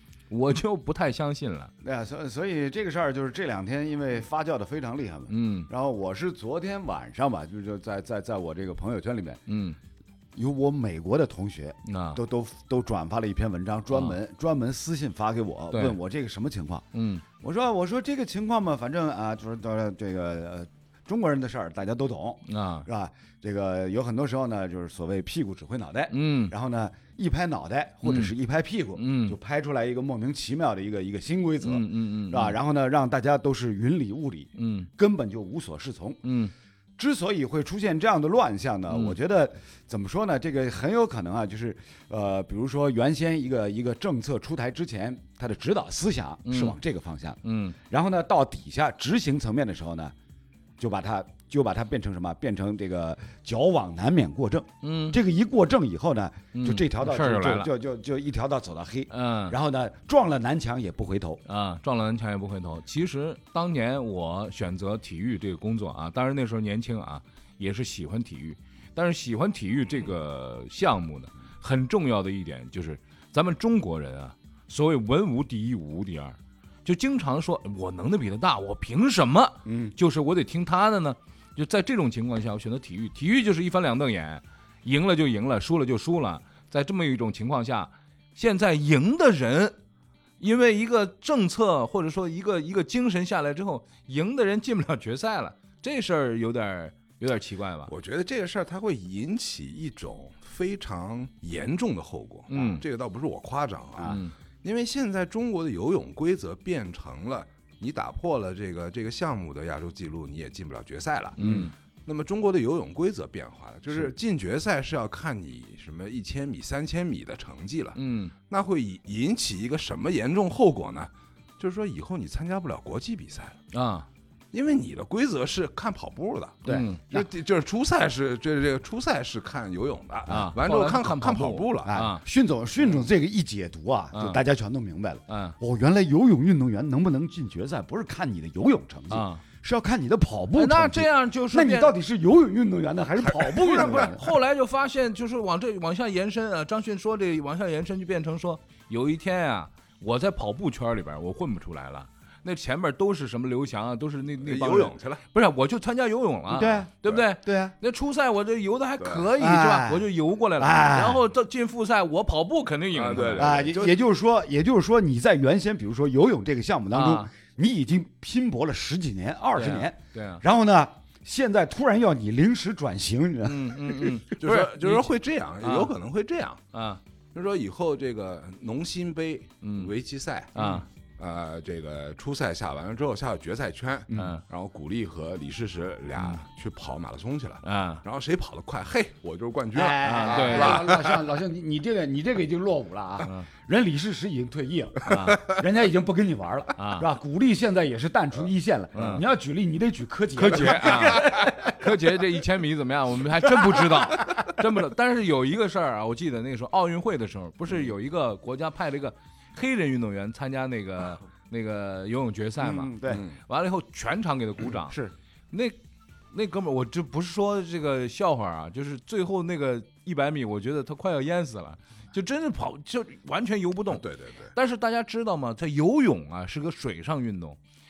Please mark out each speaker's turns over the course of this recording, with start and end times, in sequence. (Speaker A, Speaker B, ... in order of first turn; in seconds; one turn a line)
Speaker A: 0.3-1.7
Speaker B: 1.8-9.4
Speaker A: 5.3-5.7
Speaker A: 9.5-9.8
Speaker B: 10.3-16.9
Speaker A: 11.9-12.2
Speaker A: 15.7-16.0
Speaker A: 16.9-17.2
Speaker B: 17.4-36.2
Speaker A: 22.5-22.9
Speaker A: 26.1-26.5
Speaker A: 28.1-28.3
Speaker A: 28.9-29.4
Speaker A: 31.6-32.6
Speaker A: 34.6-34.9
Speaker A: 36.2-36.5
Speaker B: 37.0-50.1
Speaker A: 38.9-39.2
Speaker A: 46.5-46.8
Speaker A: 47.4-47.8
Speaker B: 50.8-61.4
Speaker A: 54.8-55.2
Speaker A: 56.5-57.7
Speaker A: 59.1-59.6
Speaker A: 61.5-89.8
Speaker B: 79.7-79.9
Speaker A: 90.4-97.9
Speaker C: 97.9-118.0
Speaker A: 102.5-102.8
Speaker B: 104.0-104.2
Speaker A: 104.0-104.3
Speaker A: 111.4-111.7
Speaker B: 111.4-111.7
Speaker A: 118.0-118.3
Speaker C: 118.5-123.6
Speaker A: 123.7-124.1
Speaker C: 124.5-131.9
Speaker B: 126.7-127.3
Speaker A: 126.7-127.1
Speaker A: 130.3-132.2
Speaker B: 131.8-144.2
Speaker C: 132.8-133.1
Speaker A: 134.1-134.4
Speaker A: 135.3-135.6
Speaker A: 139.1-139.4
Speaker A: 140.6-141.9
Speaker C: 143.2-144.2
Speaker A: 143.8-163.6
Speaker C: 154.4-155.2
Speaker B: 156.5-157.8
Speaker C: 159.0-159.3
Speaker B: 159.4-161.2
Speaker C: 162.9-164.0
Speaker B: 163.4-174.2
Speaker A: 166.9-167.3
Speaker A: 169.6-170.4
Speaker A: 173.4-175.1
Speaker C: 174.4-176.6
Speaker A: 175.6-175.9
Speaker A: 176.7-177.0
Speaker C: 177.3-191.2
Speaker A: 179.6-179.9
Speaker A: 180.6-180.9
Speaker A: 184.1-184.4
Speaker A: 186.2-186.4
Speaker A: 187.6-188.1
Speaker B: 189.7-201.8
Speaker A: 190.0-190.9
Speaker A: 193.2-193.5
Speaker A: 195.1-195.5
Speaker A: 196.8-197.1
Speaker A: 198.9-199.2
Speaker A: 200.4-215.0
Speaker B: 203.6-204.0
Speaker B: 212.6-213.2
Speaker C: 213.1-213.4
Speaker B: 214.9-215.1
Speaker A: 215.5-215.8
Speaker A: 216.3-227.6
Speaker C: 223.9-224.5